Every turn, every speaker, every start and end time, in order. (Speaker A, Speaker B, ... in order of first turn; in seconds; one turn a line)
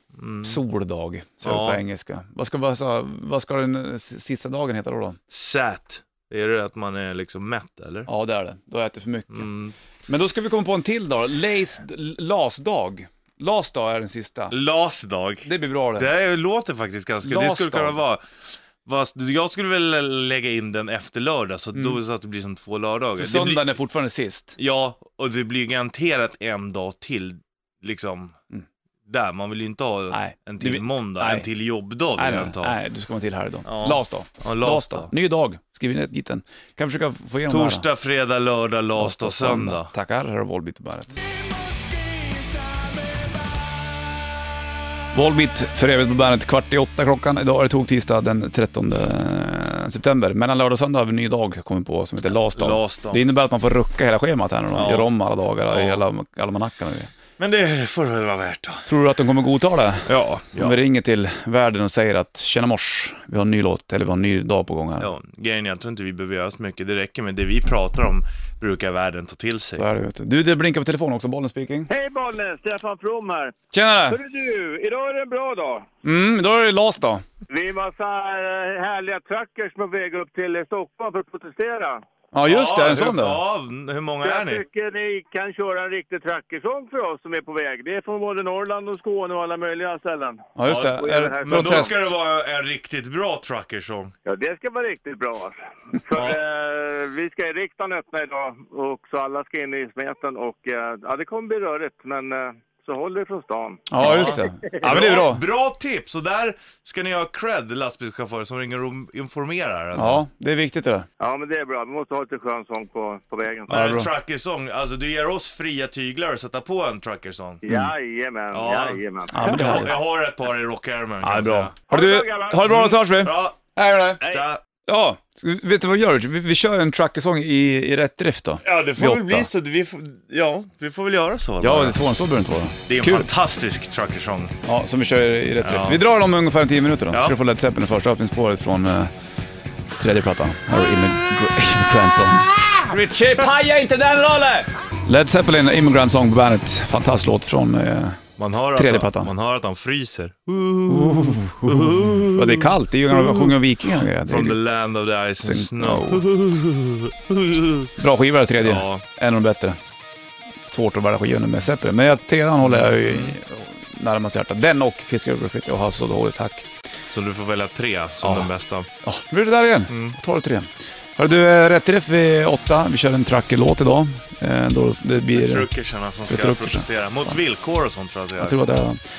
Speaker A: 0.1-0.6
Speaker B: 0.4-5.2
Speaker A: 1.4-1.8
Speaker A: 5.3-8.1
Speaker B: 8.1-9.5
Speaker A: 9.3-9.7
Speaker B: 10.1-14.5
Speaker A: 14.5-23.6
Speaker B: 15.4-16.1
Speaker B: 17.2-18.0
Speaker B: 21.7-22.0
Speaker B: 23.1-24.6
Speaker A: 24.6-28.4
Speaker A: 29.1-32.8
Speaker B: 30.1-31.5
Speaker B: 32.1-37.9
Speaker A: 33.6-35.1
Speaker A: 37.5-39.9
Speaker B: 39.0-41.2
Speaker A: 42.0-42.5
Speaker B: 45.1-57.1
Speaker A: 52.5-53.2
Speaker A: 54.7-55.1
Speaker A: 55.7-56.0
Speaker A: 57.4-58.9
Speaker B: 58.9-65.1
Speaker A: 60.0-60.8
Speaker A: 65.0-69.8
Speaker B: 69.7-71.9
Speaker C: 71.9-73.6
Speaker B: 73.7-74.2
Speaker C: 74.1-75.9
Speaker B: 76.0-77.2
Speaker C: 77.5-82.0
Speaker B: 82.3-83.4
Speaker A: 82.4-84.6
Speaker C: 84.2-91.9
Speaker B: 90.5-91.9
Speaker A: 90.7-90.9
Speaker A: 91.4-94.1
Speaker C: 94.2-104.7
Speaker A: 96.1-96.4
Speaker B: 103.9-105.4
Speaker A: 104.0-110.2
Speaker B: 109.9-111.1
Speaker C: 111.2-113.7
Speaker A: 113.7-117.6
Speaker B: 113.7-114.1
Speaker C: 117.6-120.0
Speaker B: 117.7-117.9
Speaker A: 118.5-121.7
Speaker B: 119.3-119.9
Speaker B: 121.2-124.2
Speaker C: 121.9-122.7
Speaker A: 122.6-123.6
Speaker A: 124.2-124.6
Speaker B: 124.9-129.5
Speaker A: 128.6-132.0
Speaker B: 131.6-133.3
Speaker A: 132.9-134.5
Speaker B: 134.6-139.1
Speaker A: 135.6-136.1
Speaker A: 137.1-137.4
Speaker B: 140.0-148.2
Speaker A: 148.4-153.6
Speaker B: 148.8-149.3
Speaker B: 150.9-154.6
Speaker A: 154.2-157.9
Speaker B: 155.4-156.2
Speaker B: 158.0-159.8
Speaker A: 158.6-159.0
Speaker B: 160.7-166.7
Speaker A: 162.6-163.3
Speaker A: 167.1-168.9
Speaker B: 169.0-175.7
Speaker A: 169.9-170.2
Speaker A: 175.3-178.6
Speaker B: 176.3-177.4
Speaker B: 178.3-179.0